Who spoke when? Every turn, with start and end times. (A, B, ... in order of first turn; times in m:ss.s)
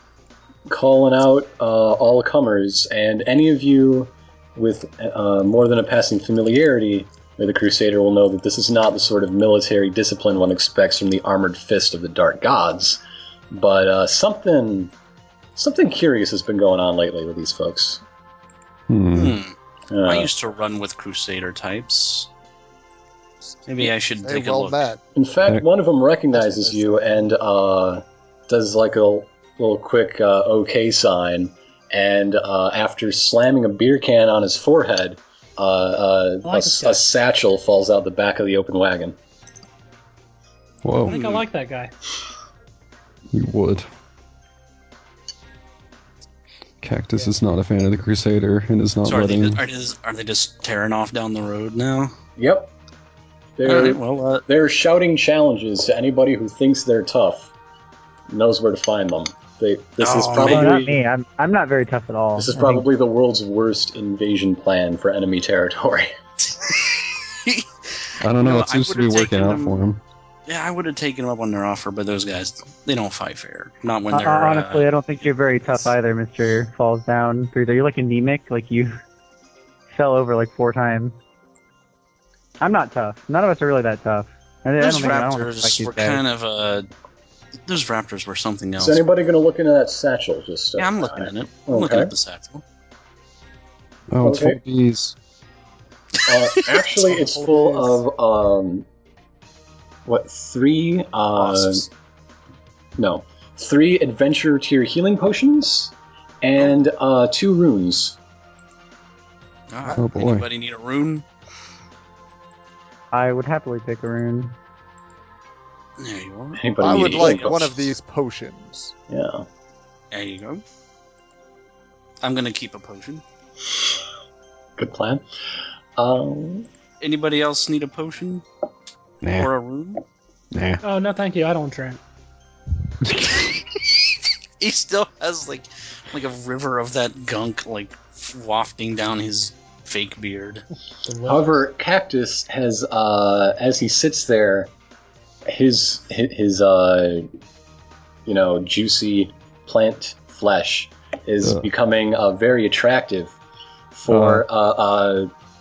0:00.7-0:14.9 A
0:15.6-0:18.0 A
0:18.9-0:19.4 B
0:19.1-0:22.3 C
0:19.9-0:20.3 A
0:23.6-0:24.8 C
0:23.8-0:25.0 D
0:25.1-0:39.2 A
0:26.4-0:27.0 D
0:36.4-0:37.0 E
0:40.8-0:41.2 B
0:41.0-0:41.9 E
0:41.1-0:41.4 C
0:43.3-0:43.9 B
0:46.8-0:49.6 B
0:49.0-0:52.1 C
0:52.4-0:52.7 A
0:53.6-0:57.5 A
0:53.6-0:54.4 C
0:58.3-1:01.0 A
1:00.0-1:00.8 C
1:00.3-1:02.8 F
1:02.4-1:06.1 A
1:06.6-1:07.7 C
1:08.2-1:10.0 B
1:08.4-1:09.8 C
1:10.5-1:14.8 C
1:14.1-1:19.0 F
1:19.9-1:21.2 F
1:22.6-1:26.2 F
1:24.8-1:26.9 C
1:27.6-1:29.0 C
1:28.8-1:32.1 A
1:30.8-1:32.6 C
1:34.1-1:35.2 B
1:34.2-1:34.6 A
1:36.2-1:38.8 A
1:36.2-1:36.8 C
1:37.1-1:38.0 D
1:40.0-1:41.8 A
1:41.4-1:41.9 C
1:43.0-1:48.2 A
1:49.7-1:51.2 C
1:49.9-1:50.4 B
1:53.1-1:54.5 F
1:56.0-1:57.8 C
1:56.6-1:57.7 A
1:56.8-1:58.9 D
1:59.1-1:59.4 A
2:00.1-2:00.6 C
2:02.2-2:03.2 C
2:04.8-2:05.2 A
2:06.0-2:06.7 A
2:07.0-2:08.4 C
2:09.2-2:09.5 B
2:09.3-2:10.0 C
2:10.5-2:10.8 B
2:10.8-2:12.0 E
2:13.1-2:13.5 B
2:14.6-2:20.6 C
2:21.0-2:21.6 E
2:21.2-2:24.7 A
2:25.5-2:27.3 A
2:28.2-2:33.3 A
2:33.9-2:35.3 A
2:34.1-2:34.4 B